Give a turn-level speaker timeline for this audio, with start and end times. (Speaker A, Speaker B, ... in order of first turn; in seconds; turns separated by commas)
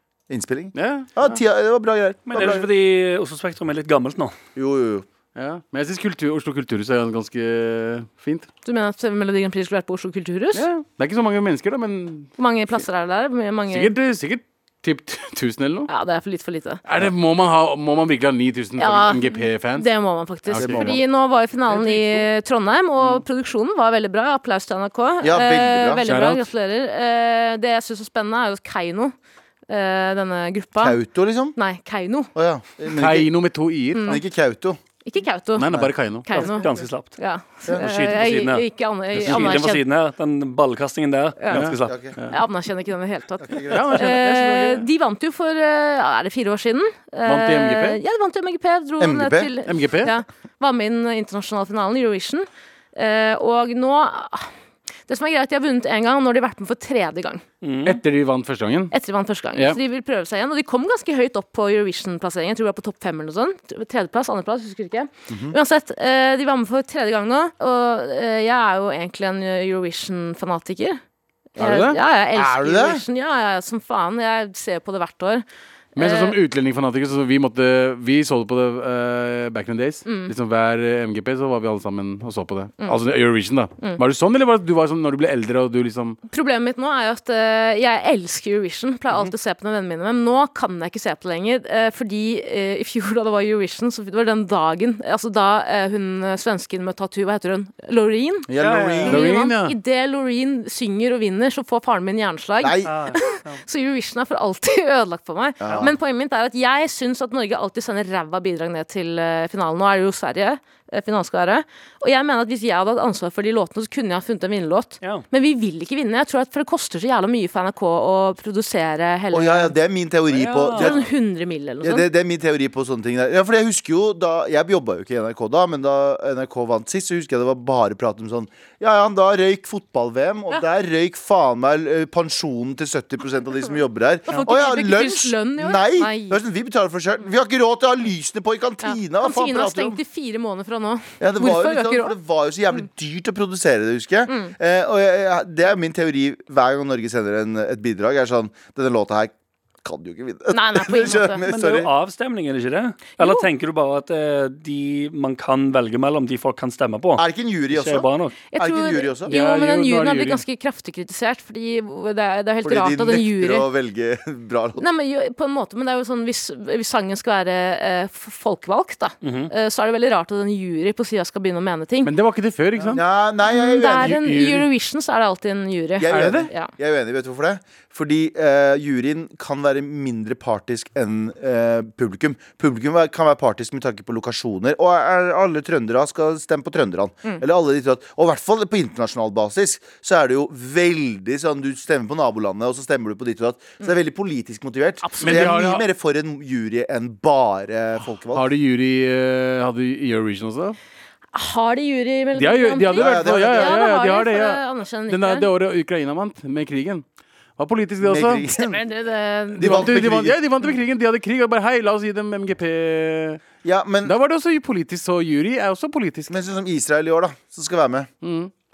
Speaker A: 0.3-2.7, Speaker B: 0.7-1.4, Speaker C: 2.3-4.3, Speaker A: 4.5-5.1, Speaker B: 5.3-8.5, Speaker D: 8.6-10.7, Speaker B: 10.5-12.3, Speaker D: 12.4-13.9, Speaker B: 13.7-15.9, Speaker D: 15.9-16.8, Speaker B: 16.8-19.9, Speaker D: 18.8-29.1, Speaker B: 20.5-21.0, Speaker A: 20.6-21.0, Speaker C: 21.7-22.2, Speaker A: 25.2-26.0, Speaker B: 26.0-26.5, Speaker D: 29.7-31.0, Speaker A: 30.8-31.6, Speaker D: 31.5-32.3, Speaker A: 32.3-33.3, Speaker B: 32.9-34.2, Speaker D: 33.9-34.2, Speaker A: 34.0-34.8, Speaker D: 35.0-35.7, Speaker B: 35.5-36.3, Speaker D: 36.2-39.8, Speaker C: 36.3-37.2, Speaker C: 37.7-38.6, Speaker C: 39.1-42.0, Speaker B: 39.2-39.6, Speaker D: 41.4-41.7, Speaker B: 41.5-42.4, Speaker A: 41.8-42.2, Speaker D: 42.3-54.5, Speaker A: 43.4-44.2, Speaker B: 43.7-44.9, Speaker B: 47.2-48.0, Speaker A: 49.0-49.5, Speaker B: 49.6-50.1, Speaker D: 55.1-57.4, Speaker C: 57.6-58.0, Speaker B: 57.8-58.9, Speaker D: 58.9-71.0, Speaker A: 65.3-65.5, Speaker D: 71.5-75.4, Speaker B: 71.6-72.0, Speaker A: 71.6-73.0, Speaker D: 76.0-76.4, Speaker B: 76.0-86.2, Speaker D: 80.0-80.3, Speaker D: 86.3-98.5, Speaker A: 98.5-99.2, Speaker C: 98.6-99.2, Speaker D: 99.0-119.7, Speaker B: 99.1-99.8, Speaker A: 102.6-103.1, Speaker C: 102.8-103.6, Speaker A: 105.6-105.9, Speaker A: 119.3-121.1, Speaker C: 120.3-121.0, Speaker D: 120.7-122.1, Speaker A: 121.8-140.0, Speaker D: 134.3-136.4, Speaker D: 138.8-142.1, Speaker A: 141.2-151.9, Speaker D: 144.3-144.5, Speaker D: 150.5-151.4, Speaker C: 151.4-158.3, Speaker D: 153.2-153.4, Speaker A: 157.2-159.3, Speaker D: 158.5-163.7, Speaker B: 159.3-160.4, Speaker A: 162.6-164.8, Speaker D: 164.8-172.1, Speaker C: 169.2-169.5, Speaker B: 172.0-173.0, Speaker A: 172.9-174.2, Speaker D: 173.4-176.7, Speaker B: 173.9-174.7, Speaker A: 176.0-198.5, Speaker B: 176.1-176.5, Speaker D: 195.0-195.6, Speaker B: 195.2-195.8, Speaker B: 198.3-200.8, Speaker D: 201.3-205.5, Speaker B: 202.3-207.0, Speaker A: 202.9-203.9, Speaker B: 207.6-208.4, Speaker A: 208.0-208.8, Speaker D: 208.5-210.0, Speaker A: 209.6-210.4, Speaker B: 209.6-213.4, Speaker A: 213.6-214.2, Speaker B: 214.0-216.4, Speaker A: 216.3-218.1, Speaker B: 218.2-218.5